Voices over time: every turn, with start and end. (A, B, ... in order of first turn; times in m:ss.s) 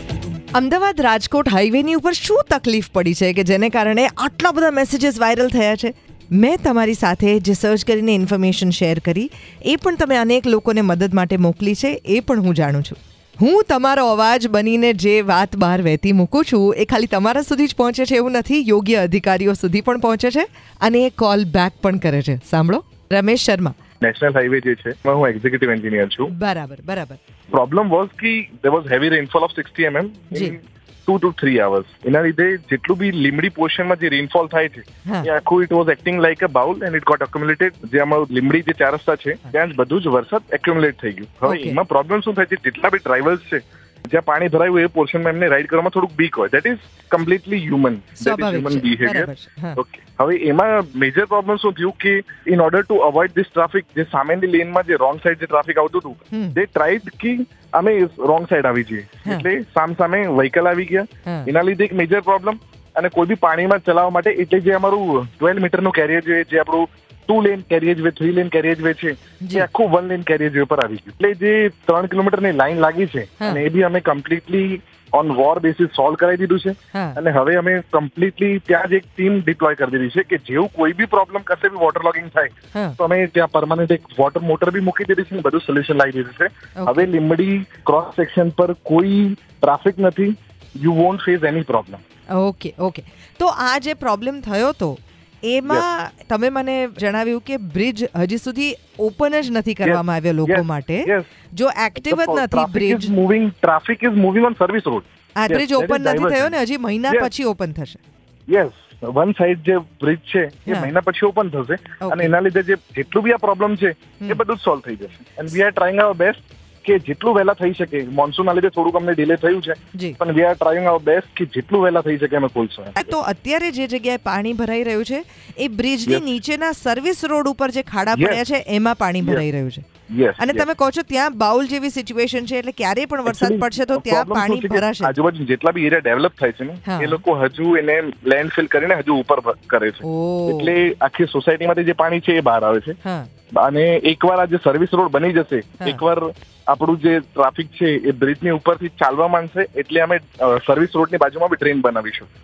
0:00.5-0:23.8 A
0:24.0-0:26.3 B
0:26.3-0:27.2 A
0:27.5-1:32.0 B
0:41.4-0:41.8 A
0:48.2-0:49.8 A
0:56.3-0:56.6 A
1:09.4-1:09.7 A
1:16.9-1:17.2 A
1:26.8-1:27.1 A
1:32.4-1:43.1 A
1:39.8-1:41.3 B
1:42.0-1:46.5 B
1:45.4-1:48.0 A
1:48.5-2:03.0 B
1:50.7-1:50.9 A
1:52.0-1:52.3 A
2:03.0-2:09.8 A
2:08.2-2:08.4 B
2:10.1-2:10.7 B
2:10.4-2:15.1 A
2:13.3-2:23.0 B
2:16.9-2:17.2 A
2:20.0-2:20.7 A
2:23.0-2:23.3 A
2:23.6-2:32.3 B